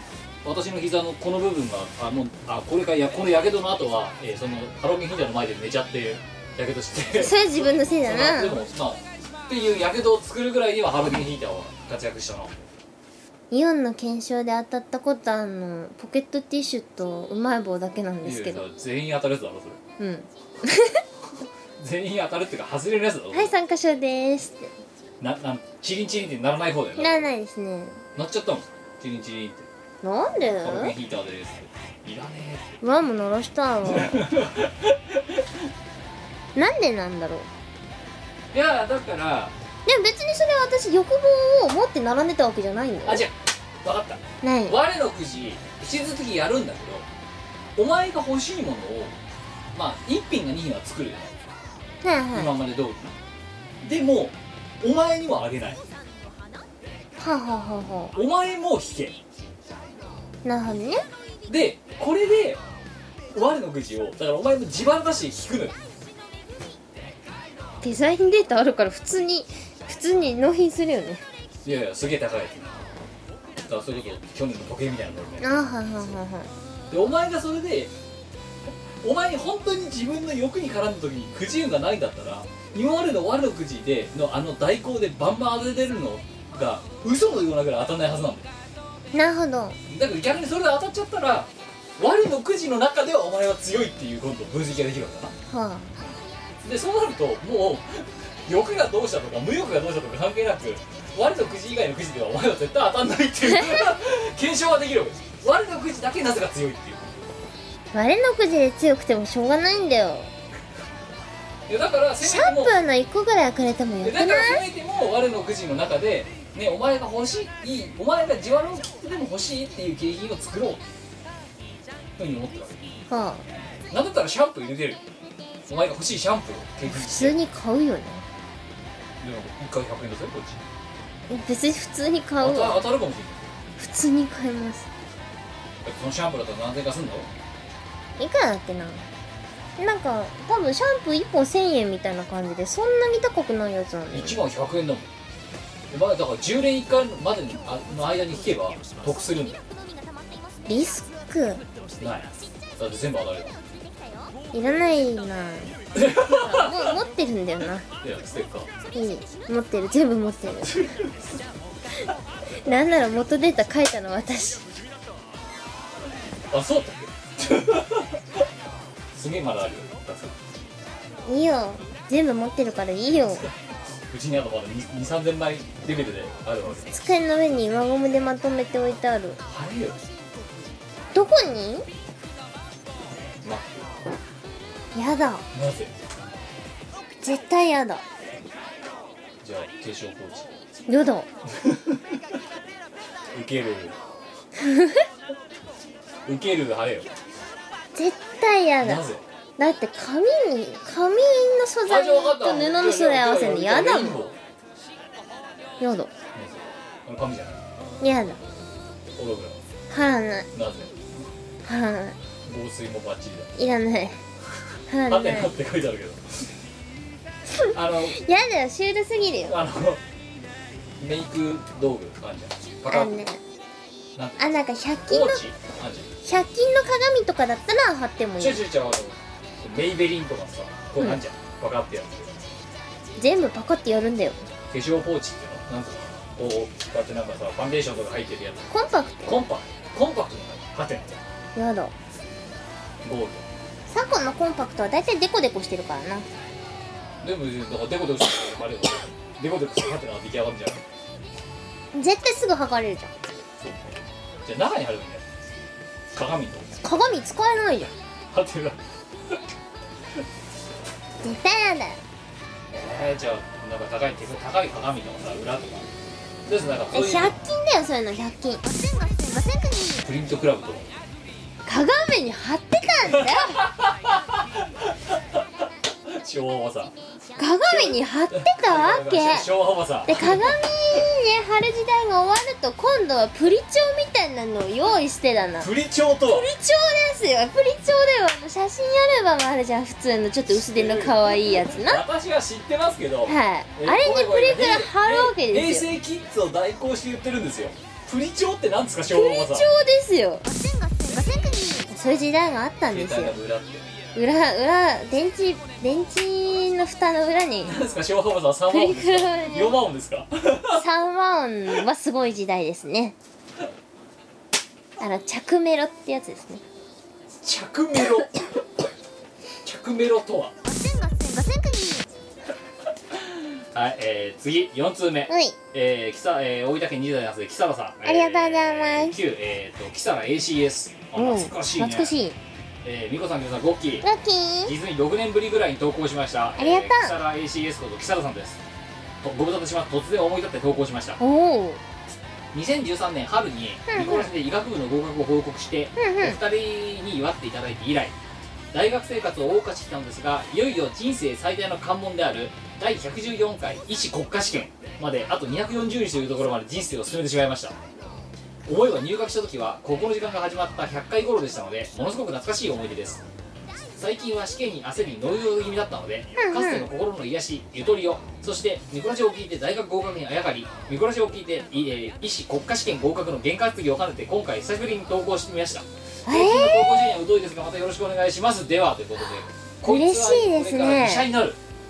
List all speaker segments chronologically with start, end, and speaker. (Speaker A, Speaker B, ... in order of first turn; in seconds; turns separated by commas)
Speaker A: 0.4-12.6, Speaker B: 7.2-8.6, Speaker B: 13.5-18.6, Speaker A: 18.2-19.8, Speaker B: 20.0-21.0, Speaker A: 21.8-23.5, Speaker B: 23.3-24.7, Speaker A: 25.2-27.3, Speaker B: 27.0-28.0, Speaker A: 28.1-29.7, Speaker B: 30.0-30.9, Speaker A: 30.6-32.7, Speaker B: 32.8-34.3, Speaker A: 33.8-35.6, Speaker B: 36.5-37.5, Speaker A: 38.5-39.5, Speaker B: 39.9-43.2, Speaker A: 43.0-47.0, Speaker B: 44.4-44.8, Speaker A: 47.8-49.2, Speaker A: 49.7-51.4, Speaker B: 52.0-52.5, Speaker A: 52.3-53.1, Speaker A: 53.8-55.8, Speaker B: 57.2-58.1, Speaker A: 58.1-59.2, Speaker B: 60.4-61.0, Speaker A: 61.5-62.6, Speaker A: 63.3-65.8, Speaker B: 67.8-71.2, Speaker A: 71.6-72.9, Speaker A: 73.6-76.1, Speaker B: 75.4-76.5, Speaker A: 76.9-77.9, Speaker A: 79.0-88.5, Speaker B: 89.1-89.8, Speaker A: 89.9-95.3, Speaker B: 95.5-95.9, Speaker A: 96.0-107.3, Speaker B: 103.5-103.9, Speaker B: 107.9-110.3, Speaker A: 111.7-112.7, Speaker B: 112.2-114.6, Speaker A: 114.0-120.8, Speaker A: 122.2-123.0, Speaker B: 123.1-123.5, Speaker A: 123.9-125.0, Speaker A: 125.7-127.4, Speaker B: 126.8-128.2, Speaker A: 129.2-130.6, Speaker B: 131.3-132.8, Speaker A: 132.4-133.5, Speaker B: 133.8-134.9, Speaker A: 135.8-137.3, Speaker B: 138.2-139.1, Speaker B: 139.8-144.4, Speaker A: 144.1-145.1, Speaker A: 145.9-149.6, Speaker B: 150.7-151.6, Speaker A: 152.0-153.6, Speaker B: 154.5-157.8, Speaker A: 155.9-156.9, Speaker A: 158.0-158.7, Speaker B: 158.9-160.8, Speaker A: 160.6-161.2, Speaker B: 162.6-164.6, Speaker A: 166.5-168.4, Speaker A: 169.1-170.4, Speaker B: 171.2-173.4, Speaker A: 174.1-176.9, Speaker B: 176.9-179.4, Speaker A: 179.4-180.0, Speaker B: 181.1-181.8, Speaker A: 183.4-183.9, Speaker B: 184.9-185.4, Speaker A: 185.5-185.9, Speaker B: 187.2-188.0, Speaker A: 189.4-190.5, Speaker B: 190.9-191.3, Speaker A: 191.5-192.2, Speaker A: 193.3-194.0, Speaker B: 194.6-195.0, Speaker A: 196.2-197.1, Speaker B: 197.9-199.0, Speaker A: 198.8-199.2, Speaker B: 199.6-204.2, Speaker A: 201.8-204.4, Speaker B: 205.8-206.1, Speaker A: 206.3-207.6, Speaker B: 208.0-208.4, Speaker A: 209.2-209.6, Speaker B: 209.9-210.5, Speaker A: 210.5-211.2, Speaker B: 211.6-212.2, Speaker A: 212.4-213.5, Speaker B: 213.6-214.2, Speaker B: 214.9-215.5, Speaker A: 215.1-216.5, Speaker B: 217.6-219.6, Speaker A: 217.7-218.2, Speaker A: 219.4-220.0, Speaker A: 221.0-223.1, Speaker B: 222.9-223.4, Speaker A: 224.2-224.5, Speaker B: 224.4-225.4, Speaker A: 225.1-226.1, Speaker B: 226.2-228.6, Speaker A: 228.4-232.3, Speaker B: 233.2-234.4, Speaker A: 234.7-238.7, Speaker B: 238.7-239.5, Speaker A: 239.2-241.2, Speaker B: 241.6-241.9, Speaker A: 243.0-243.4, Speaker B: 243.9-246.3, Speaker A: 247.2-250.8, Speaker B: 251.9-253.1, Speaker A: 253.6-255.2, Speaker A: 256.1-256.7, Speaker B: 256.8-257.9, Speaker A: 258.3-259.4, Speaker B: 261.2-262.0, Speaker A: 262.7-265.9, Speaker A: 266.4-267.4, Speaker B: 266.9-268.6, Speaker A: 269.9-270.9, Speaker B: 271.6-273.7, Speaker A: 273.0-276.9, Speaker B: 277.4-279.5, Speaker A: 277.6-281.0, Speaker B: 280.1-285.7, Speaker A: 285.6-286.5, Speaker B: 286.2-292.0, Speaker A: 290.5-299.7, Speaker B: 293.2-295.9, Speaker B: 299.1-300.5, Speaker B: 301.5-303.4, Speaker A: 302.9-303.9, Speaker B: 304.1-307.7, Speaker A: 307.6-310.8, Speaker B: 308.7-309.8, Speaker B: 310.7-313.1, Speaker B: 315.0-316.6, Speaker A: 317.3-318.6, Speaker A: 319.6-320.5, Speaker A: 323.1-332.1, Speaker B: 325.3-325.6, Speaker B: 328.0-329.1, Speaker B: 331.1-332.4, Speaker A: 332.8-334.1, Speaker B: 334.0-334.7, Speaker A: 334.6-338.6, Speaker B: 336.6-337.1, Speaker A: 339.2-341.2, Speaker B: 341.2-341.8, Speaker A: 342.5-348.1, Speaker B: 343.9-344.3, Speaker B: 346.0-346.4, Speaker A: 348.7-357.8, Speaker A: 358.6-363.2, Speaker A: 363.9-381.6, Speaker B: 366.4-366.9, Speaker B: 376.2-377.2, Speaker B: 379.8-381.3